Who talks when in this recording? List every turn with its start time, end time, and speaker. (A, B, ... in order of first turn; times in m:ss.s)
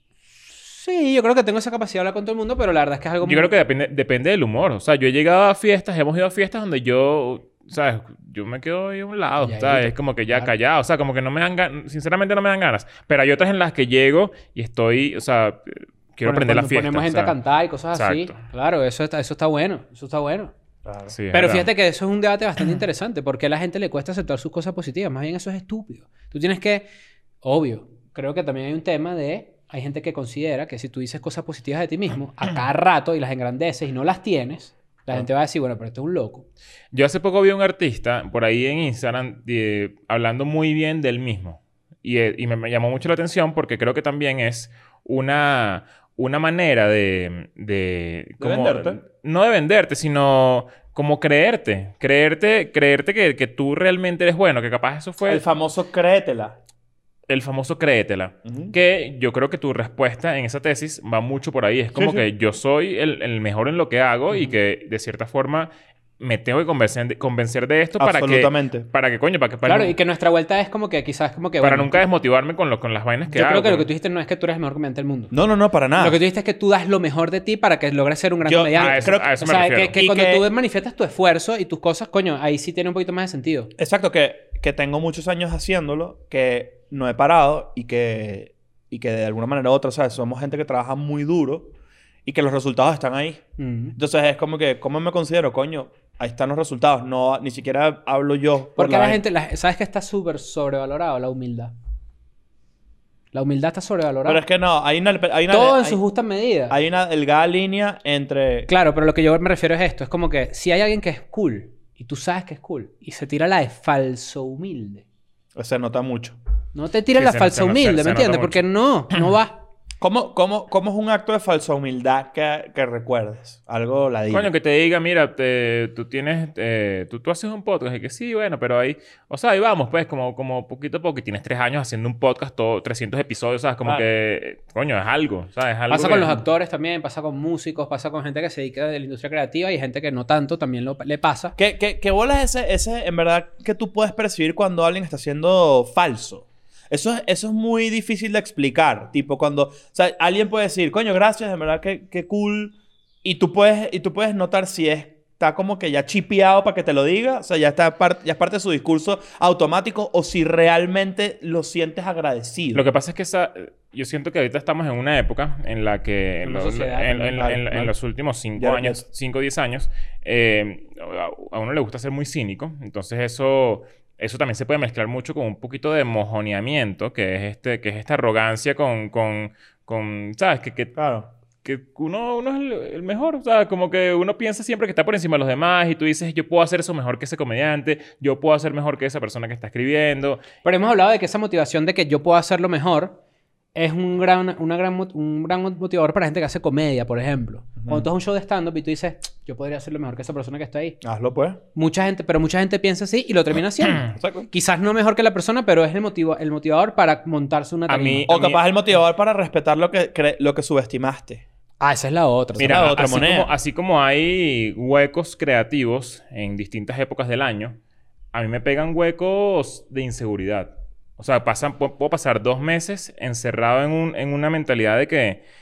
0:00.6-0:03.5 A
0:03.2-0:17.4 B
0:09.4-0:10.5 A
0:16.2-0:20.5 A
0:17.9-0:18.4 B
0:20.8-0:21.1 C
0:21.1-0:21.7 B
0:21.3-0:26.9 A
0:27.4-0:36.4 A
0:36.9-0:55.4 B
0:48.4-0:49.0 C
0:55.2-0:56.6 C
0:57.3-1:09.9 B
0:58.4-0:58.7 C
1:01.9-1:02.2 C
1:08.0-1:08.8 C
1:09.6-1:12.0 A
1:11.6-1:13.9 B
1:13.3-1:15.3 A
1:15.3-1:16.2 C
1:16.0-1:23.7 A
1:18.4-1:19.4 C
1:18.8-1:20.0 B
1:19.9-1:20.5 C
1:23.8-1:31.7 C
1:32.2-1:33.4 C
1:33.6-1:34.0 A
1:34.0-1:39.2 C
1:38.8-1:41.7 A
1:43.3-1:44.4 A
1:44.2-1:46.0 C
1:45.5-1:46.8 A
1:46.7-1:48.7 C
1:48.7-1:55.0 A
1:55.5-1:56.4 C
1:56.7-1:59.6 A
1:57.1-1:58.6 B
2:00.0-2:04.5 C
2:04.3-2:16.4 B
2:15.9-2:21.6 A
2:21.6-2:42.8 C
2:42.7-3:00.9 B
2:46.4-2:47.9 A
2:47.4-2:47.8 C
2:48.6-2:49.0 C
3:01.0-3:01.3 C
3:01.6-3:10.4 B
3:10.6-3:13.2 A
3:13.7-3:21.0 A
3:17.8-3:18.1 C
3:21.0-3:21.6 C
3:21.7-3:28.5 A
3:24.1-3:24.5 C
3:27.9-3:28.6 B
3:28.3-3:31.4 C
3:31.8-3:33.1 A
3:32.6-3:33.5 C
3:32.6-3:37.8 B
3:38.3-3:45.4 B